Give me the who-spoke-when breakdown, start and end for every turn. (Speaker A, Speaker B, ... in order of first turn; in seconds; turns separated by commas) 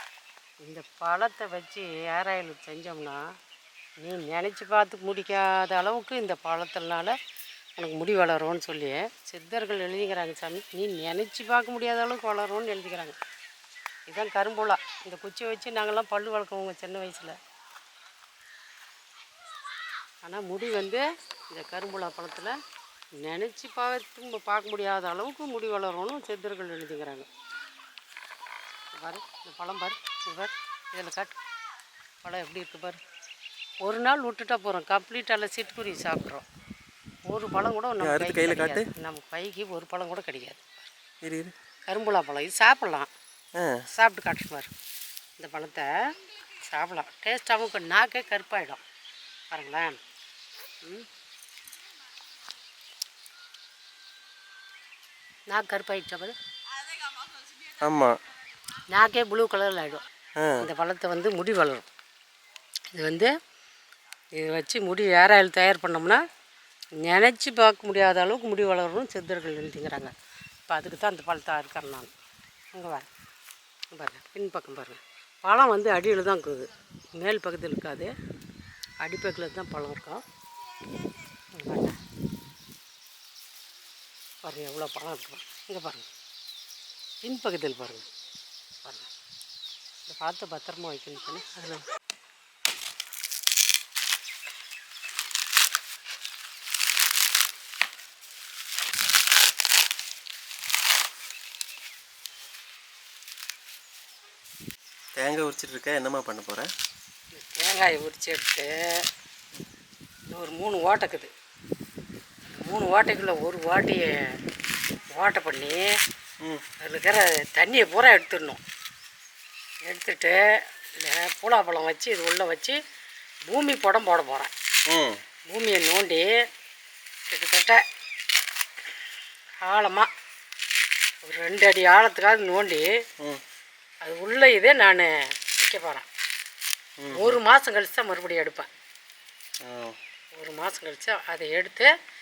Speaker A: 0.6-3.2, Speaker A: 4.0-7.2, Speaker A: 7.8-13.2, Speaker A: 14.1-17.4, Speaker A: 20.2-22.6, Speaker A: 23.2-27.3, Speaker A: 28.9-31.3, Speaker A: 32.2-33.0, Speaker A: 33.8-36.4, Speaker A: 37.3-40.7, Speaker B: 38.0-38.9, Speaker B: 41.2-41.5, Speaker A: 41.9-43.1, Speaker B: 43.6-43.8, Speaker A: 43.9-44.7, Speaker A: 45.4-45.9, Speaker A: 46.6-48.8, Speaker A: 49.5-50.0, Speaker A: 55.5-56.3, Speaker B: 57.8-58.1, Speaker A: 58.9-60.0, Speaker B: 60.4-60.6, Speaker A: 60.6-61.9, Speaker A: 62.9-63.3, Speaker A: 64.4-66.2, Speaker A: 67.0-70.1, Speaker A: 70.7-72.1, Speaker A: 72.7-73.1, Speaker A: 73.9-78.1, Speaker A: 79.0-80.2, Speaker A: 81.5-82.0, Speaker A: 84.4-86.1, Speaker A: 87.2-88.1, Speaker A: 90.1-91.8, Speaker B: 105.2-106.7, Speaker A: 107.3-108.7, Speaker A: 110.3-111.3, Speaker A: 112.5-114.1, Speaker A: 115.1-115.8, Speaker A: 116.8-118.6, Speaker A: 119.8-120.4, Speaker A: 121.0-122.8, Speaker A: 123.5-124.5, Speaker B: 124.9-125.2, Speaker A: 125.5-126.3, Speaker A: 127.3-127.8, Speaker A: 129.6-130.1, Speaker A: 131.2-132.9, Speaker A: 134.0-136.1, Speaker B: 137.0-137.4, Speaker A: 137.1-138.7, Speaker B: 139.6-140.0, Speaker A: 140.4-141.9